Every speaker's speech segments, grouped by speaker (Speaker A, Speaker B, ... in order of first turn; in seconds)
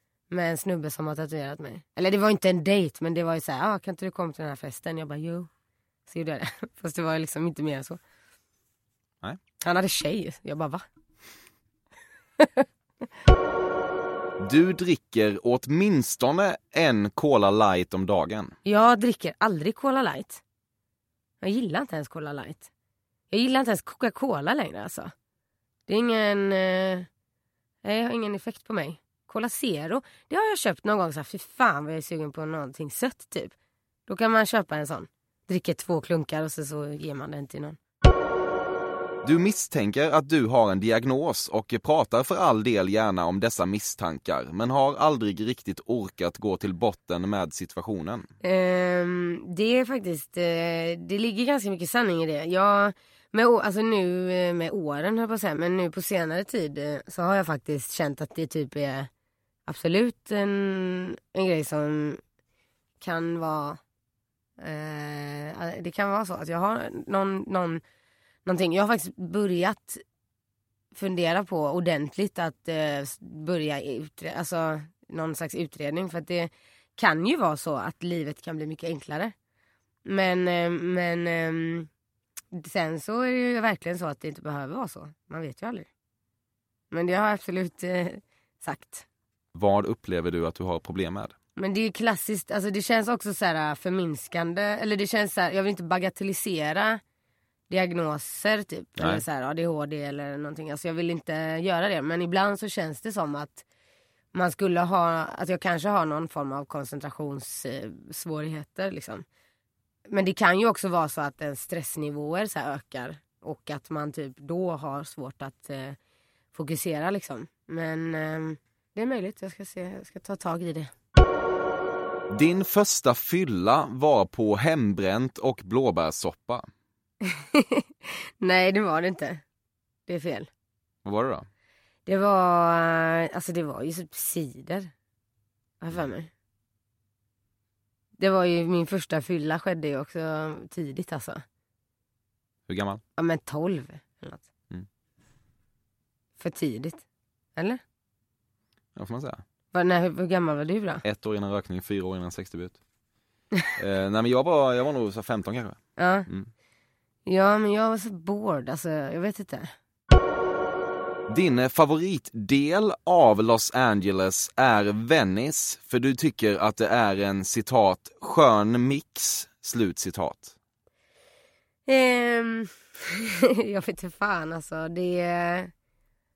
Speaker A: 0.3-5.5, 6.1-8.0, 9.6-10.8, 12.4-12.6, 18.6-20.4, 21.4-22.7, 23.3-25.1, 25.9-27.1, 27.8-33.5, 34.1-37.8, 48.4-59.1, 59.7-62.2, 63.0-63.8, 64.6-67.8, 68.4-70.0, 70.9-79.3, 80.0-81.9, 82.5-85.9, 86.9-89.0, 91.6-97.0, 97.7-103.6, 104.3-109.2, 110.1-116.0, 116.5-120.9, 127.3-127.8, 128.4-129.4, 130.1-130.5, 132.1-134.9, 135.8-136.3, 138.2-141.4, 143.2-144.4, 146.4-147.0, 149.7-151.0, 156.0-156.3, 157.2-159.7, 171.9-172.7, 173.7-175.7
Speaker B: 14.4-18.5, 39.2-48.3, 89.5-91.3, 99.0-99.2, 122.3-126.7, 131.0-131.4, 142.7-143.0, 148.9-149.4, 151.0-152.8, 153.8-156.5, 161.3-170.5